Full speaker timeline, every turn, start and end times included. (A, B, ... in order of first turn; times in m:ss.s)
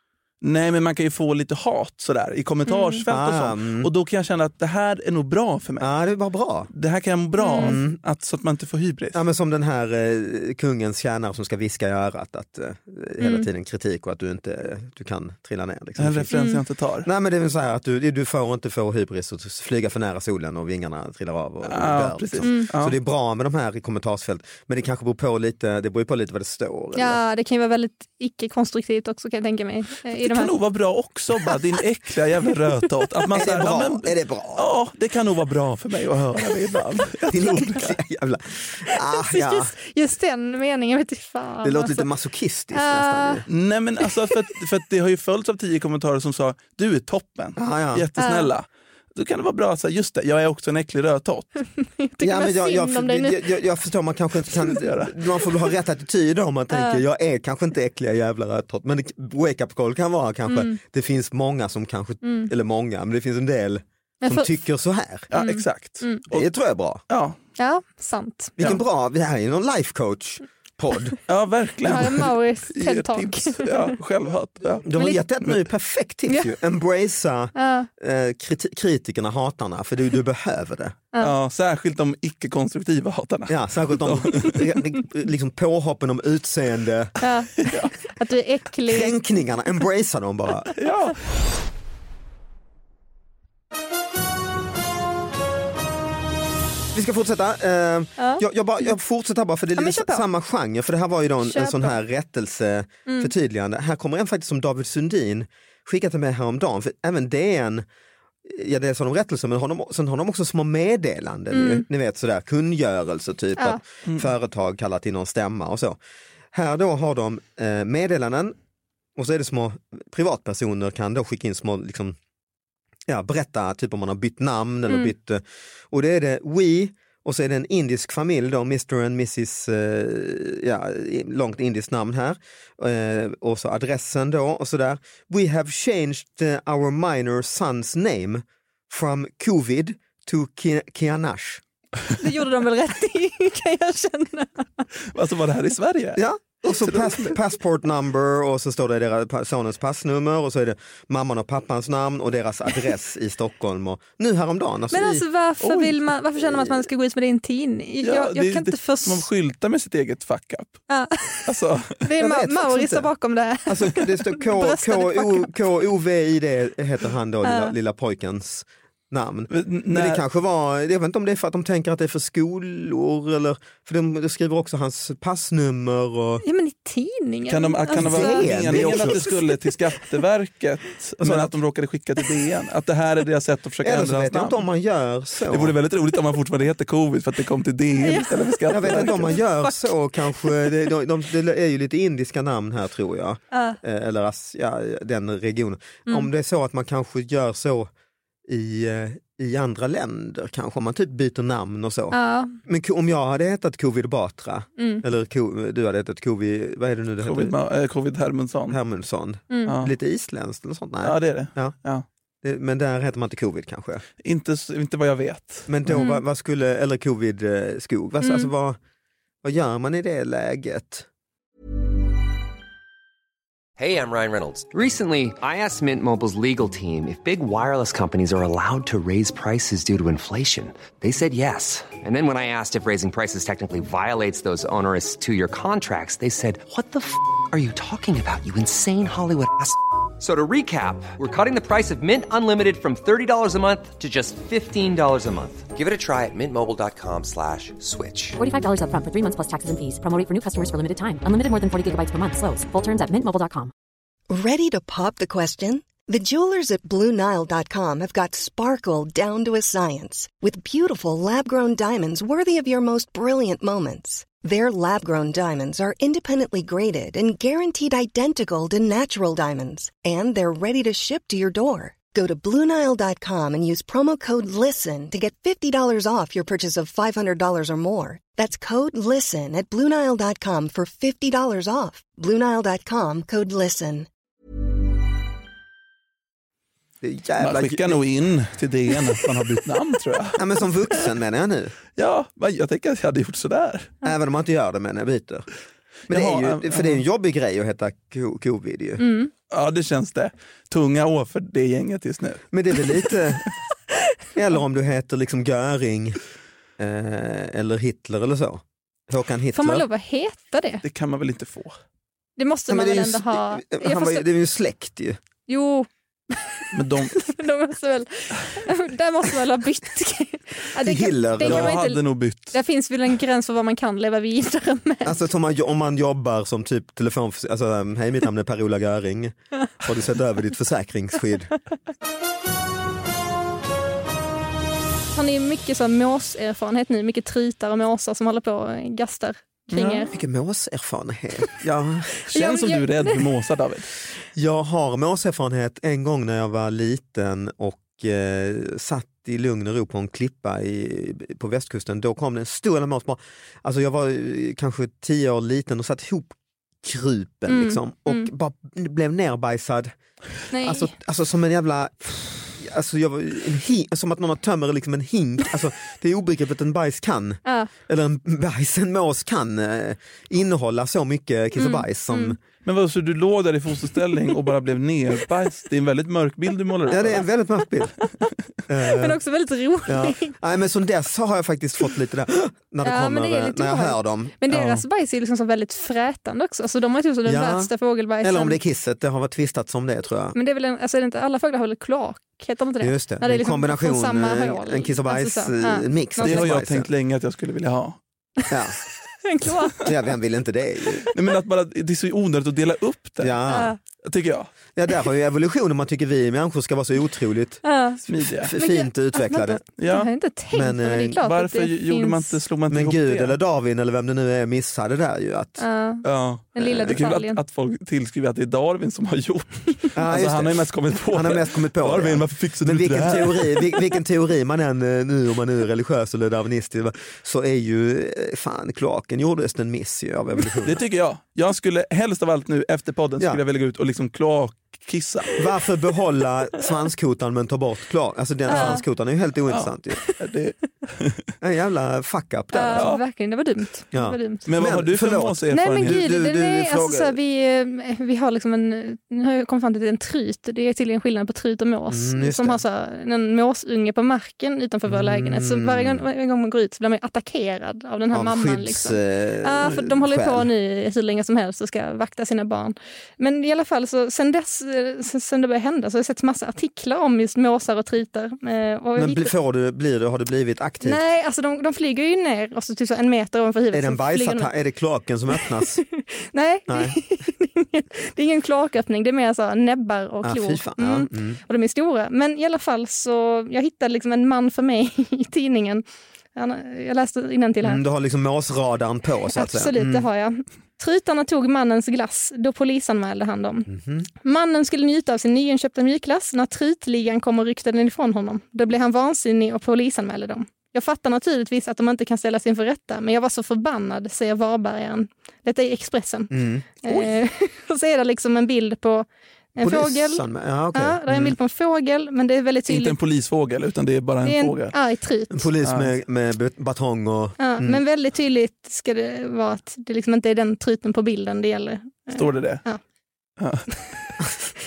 0:00.4-0:05.9 A
0:02.6-0:03.0 B
0:03.1-0:03.9 C
0:05.8-0:06.7 C
0:06.7-0:09.2 A
0:07.4-0:07.8 B
0:07.6-0:08.0 C
0:09.1-0:16.3 C
0:13.2-0:13.4 B
0:16.0-0:17.1 A
0:16.3-0:16.6 B
0:17.0-0:27.2 C
0:21.7-0:22.9 A
0:22.4-0:22.7 B
0:26.9-0:30.5 B
0:30.2-0:38.0 A
0:33.3-0:34.8 C
0:37.3-0:39.7 C
0:39.1-0:42.1 B
0:41.6-0:43.4 C
0:42.7-0:43.4 B
0:43.5-0:51.6 A
0:47.6-0:48.0 C
0:48.2-0:48.5 B
0:51.8-0:53.4 B
0:52.2-1:05.3 C
0:54.5-0:55.1 A
0:56.7-0:57.0 B
1:00.5-1:00.8 B
1:02.2-1:02.5 B
1:04.2-1:04.5 B
1:05.3-1:06.5 A
1:05.3-1:06.2 B
1:06.3-1:07.0 C
1:07.1-1:07.4 A
1:07.6-1:08.8 B
1:08.6-1:11.2 C
1:11.3-1:14.9 A
1:11.8-1:13.9 B
1:14.8-1:21.0 C
1:17.5-1:17.9 B
1:21.2-1:24.6 A
1:23.5-1:27.1 C
1:27.2-1:27.6 B
1:27.6-1:27.9 A
1:28.2-1:29.1 B
1:28.9-1:30.7 C
1:30.8-1:31.2 A
1:36.9-1:47.8 C
1:38.2-1:38.4 B
1:39.8-1:40.2 B
1:41.4-1:42.0 B
1:43.1-1:43.3 B
1:48.4-1:56.0 C
1:51.5-1:51.8 B
1:56.5-1:58.5 C
1:59.2-2:02.2 C
2:03.1-2:21.6 C
2:22.2-2:24.8 B
2:25.1-2:27.4 A
2:26.2-2:35.2 C
2:34.9-2:39.2 B
2:35.6-2:36.0 A
2:36.4-2:36.9 C
2:38.0-2:40.8 A
2:40.9-2:41.5 B
2:41.5-2:42.0 A
2:42.0-2:45.5 B
2:42.2-2:43.1 C
2:43.7-2:56.4 C
2:47.4-2:47.7 B
2:49.5-2:50.2 A
2:56.4-2:59.7 B
2:57.5-3:04.6 A
2:57.9-2:59.3 C
3:01.2-3:01.5 C
3:03.8-3:05.8 C
3:05.5-3:09.4 A
3:08.0-3:09.8 B
3:08.7-3:17.9 C
3:10.4-3:10.6 B
3:13.5-3:13.8 B
3:18.5-3:27.5 C
3:22.1-3:22.5 B
3:24.8-3:25.0 B
3:27.2-3:28.8 A
3:28.7-3:31.7 C
3:29.6-3:29.9 A
3:31.0-3:32.0 A
3:32.4-3:34.0 C
3:34.2-3:35.7 A
3:35.7-3:38.8 C
3:35.9-3:36.2 B
3:38.2-3:38.5 B
3:39.4-3:41.1 C
3:43.8-4:08.4 D
4:08.4-4:13.7 E
4:14.3-4:44.1 F
4:47.0-4:48.0 C
4:47.4-4:50.4 A
4:50.4-4:51.7 C
4:52.0-4:53.9 A
4:54.0-4:55.5 C
4:56.1-4:57.0 A
4:56.1-4:59.0 C
4:59.0-4:59.3 B
4:59.5-5:03.1 A
5:02.5-5:03.5 C
5:04.4-5:06.2 C
5:06.8-5:09.8 C
5:09.5-5:10.8 B
5:10.8-5:11.8 A
5:12.4-5:14.2 B
5:12.7-5:15.2 C
5:15.5-5:25.2 B
5:16.7-5:17.2 A
5:20.8-5:21.8 C
5:21.4-5:22.6 A
5:25.0-5:31.5 C
5:35.1-5:40.1 B
5:39.7-5:40.1 A
5:40.1-5:42.1 C
5:42.3-5:43.3 B
5:42.3-5:43.9 A
5:44.4-5:59.9 C
5:57.5-5:58.3 B
6:00.5-6:00.9 B
6:00.6-6:12.4 C
6:07.4-6:07.7 B
6:11.6-6:12.4 B
6:12.6-6:17.2 A
6:16.9-6:18.0 C
6:18.7-6:19.2 C
6:18.8-6:20.3 B
6:19.9-6:24.8 C
6:22.8-6:28.6 B
6:27.2-6:27.7 C
6:28.2-6:30.4 C
6:30.3-6:36.6 B
6:32.8-6:36.9 C
6:36.2-6:38.0 A
6:38.5-6:38.8 C
6:39.2-6:39.9 B
6:39.8-6:41.1 C
6:41.1-6:43.4 A
6:43.2-6:43.7 C
6:43.5-6:43.8 B
6:44.0-6:44.5 A
6:44.8-6:47.6 C
6:47.6-6:48.0 B
6:48.1-6:48.5 A
6:48.4-6:49.6 C
6:48.5-6:52.3 B
6:49.8-6:50.1 A
6:50.5-6:51.2 C
6:51.2-6:53.4 A
6:52.7-6:55.6 C
6:55.6-6:57.4 B
6:56.0-7:03.7 A
6:56.6-6:57.0 C
6:59.9-7:10.8 C
7:10.6-7:15.3 A
7:15.4-7:20.0 C
7:18.5-7:18.8 B
7:19.5-7:21.2 A
7:21.4-7:22.9 C
7:22.5-7:24.5 B
7:22.7-7:23.0 A
7:23.9-7:27.2 C
7:24.4-7:26.0 A
7:25.5-7:49.3 B
7:31.9-7:32.6 C
7:34.9-7:36.0 C
7:38.1-7:40.5 C
7:49.0-7:51.0 C
7:50.8-7:54.5 B
7:53.7-7:55.8 C
7:55.4-8:05.8 B
7:56.7-7:57.0 C
8:00.2-8:01.4 C
8:06.3-8:07.8 B
8:07.6-8:10.0 C
8:09.3-8:13.7 B
8:13.7-8:14.0 C
8:14.2-8:33.0 B
8:26.3-8:27.1 C
8:29.6-8:31.4 C
8:32.7-8:34.7 A
8:34.2-8:35.5 B
8:35.3-8:37.8 C
8:35.6-8:35.9 A
8:37.4-8:42.8 B
8:42.1-8:42.6 A
8:43.4-8:43.6 A